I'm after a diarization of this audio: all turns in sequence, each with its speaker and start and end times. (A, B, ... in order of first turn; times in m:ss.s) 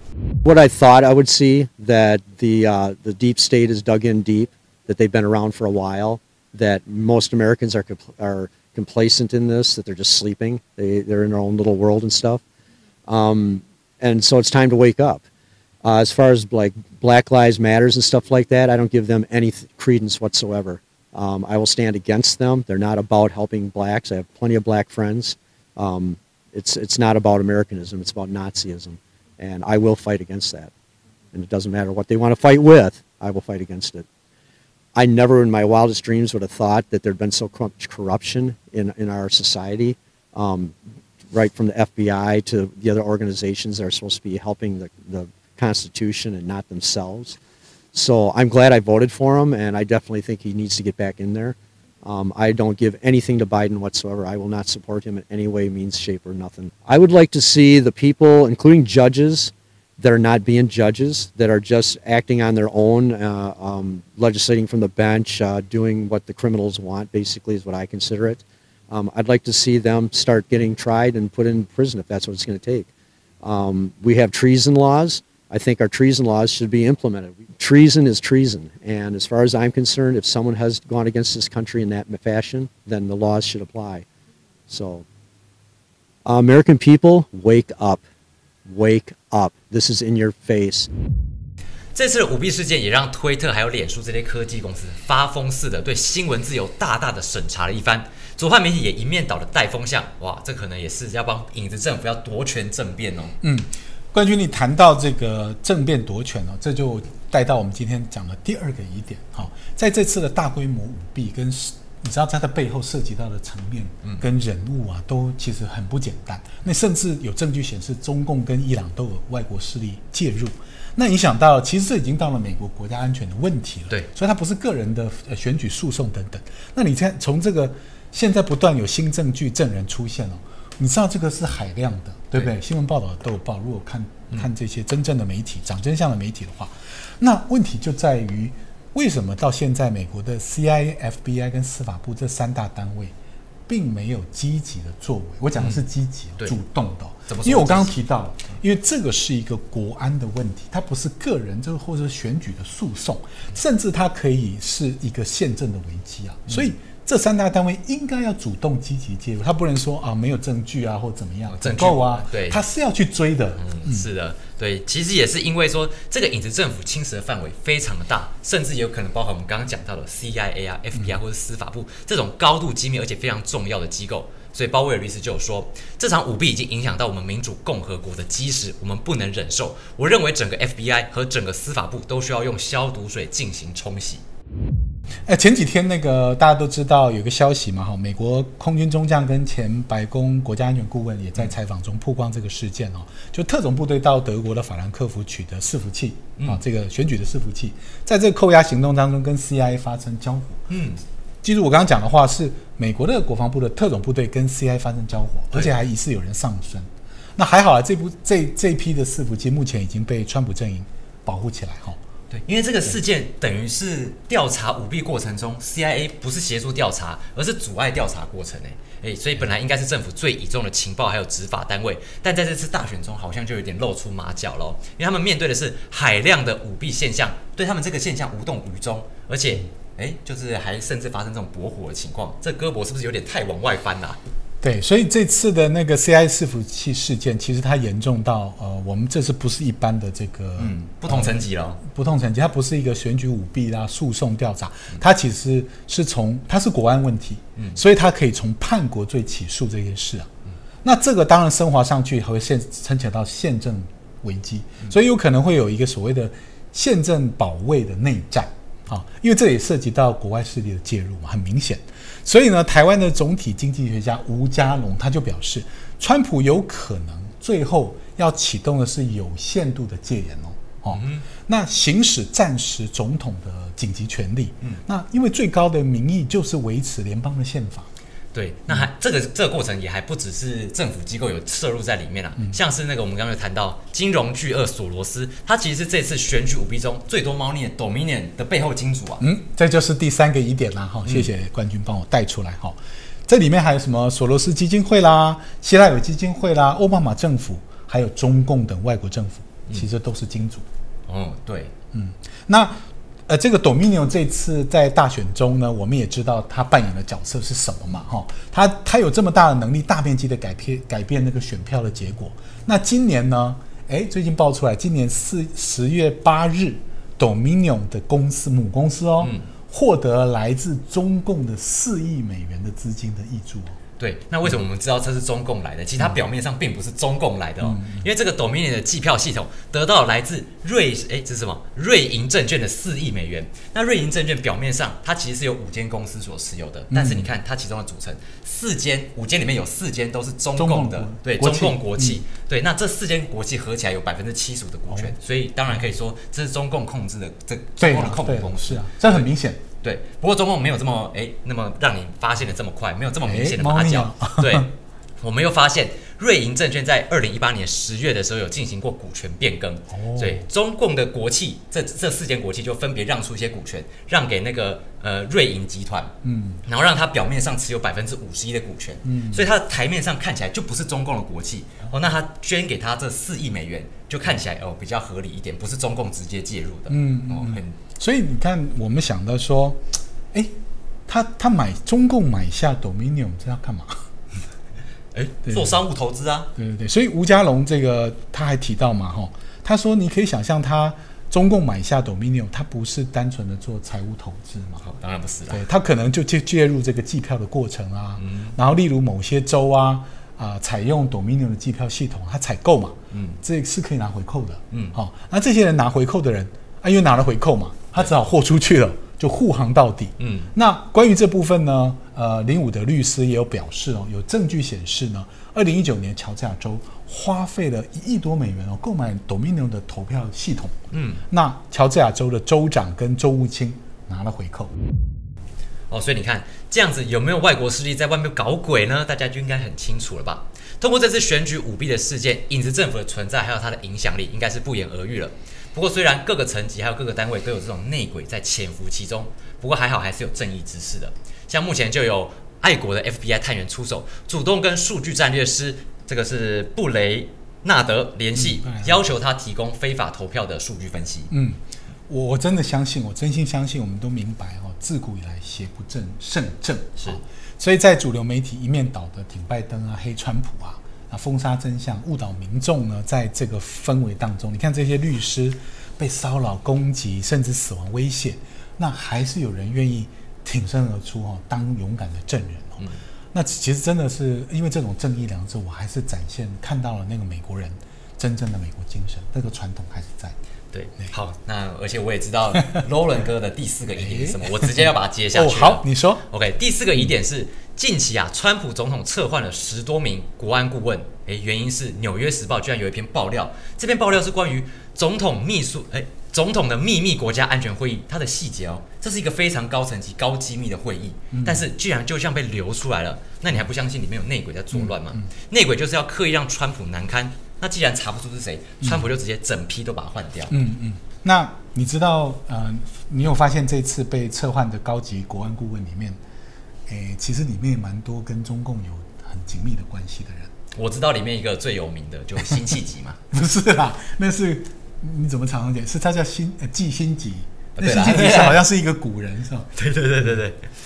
0:00.4-0:12.4 A
0:13.1-0:15.2 A
0:15.8-0:30.7 A
0:31.3-0:34.0 A
0:35.0-0:40.8 A
0:41.3-0:47.4 A
0:47.9-1:12.9 A
1:13.4-1:24.0 A
1:24.7-1:25.0 A
1:26.3-1:28.0 A
1:28.7-1:30.9 A
1:32.0-1:43.4 B
1:43.4-2:23.1 C
2:23.7-2:44.1 C
2:25.6-2:25.8 B
2:27.3-2:27.9 B
2:41.5-2:42.6 B
2:43.6-3:04.2 B
3:05.3-3:20.7 C
3:20.7-3:21.0 B
3:21.4-3:32.0 C
3:32.3-3:54.2 B
3:54.6-4:10.3 C
4:00.6-4:01.8 B
4:10.8-4:37.9 C
4:30.9-4:31.2 B
4:38.3-4:49.2 B
4:49.2-5:00.6 C
5:01.1-5:01.7 B
5:01.9-5:23.8 C
5:19.2-5:19.5 B
5:24.0-5:49.0 B
5:27.6-5:28.1 C
5:36.9-5:37.3 C
5:40.6-5:42.2 C
5:47.8-5:49.6 C
5:49.8-6:06.1 B
5:53.2-5:54.7 C
5:59.9-6:00.5 C
6:06.2-6:06.6 C
6:06.6-6:17.8 B
6:09.0-6:09.5 C
6:16.9-6:19.8 C
6:21.1-6:24.0 C
6:25.1-6:26.5 B
6:25.5-6:25.8 C
6:26.6-6:34.9 C
6:34.8-6:35.6 B
6:35.5-7:00.8 C
6:38.2-6:38.6 B
6:43.1-6:43.4 B
6:44.7-6:45.0 B
6:50.2-6:50.5 B
7:00.9-7:01.2 B
7:01.3-7:04.7 C
7:05.9-7:31.3 B
7:28.4-7:29.0 C
7:31.3-8:00.4 C
8:00.7-8:30.6 B
8:04.0-8:06.2 C
8:21.3-8:21.6 C
8:24.7-8:25.3 C
8:30.5-8:36.2 C
8:36.9-8:40.5 C
8:40.7-8:43.2 B
8:43.3-8:49.7 C
8:47.8-8:48.6 B
8:49.8-8:50.7 B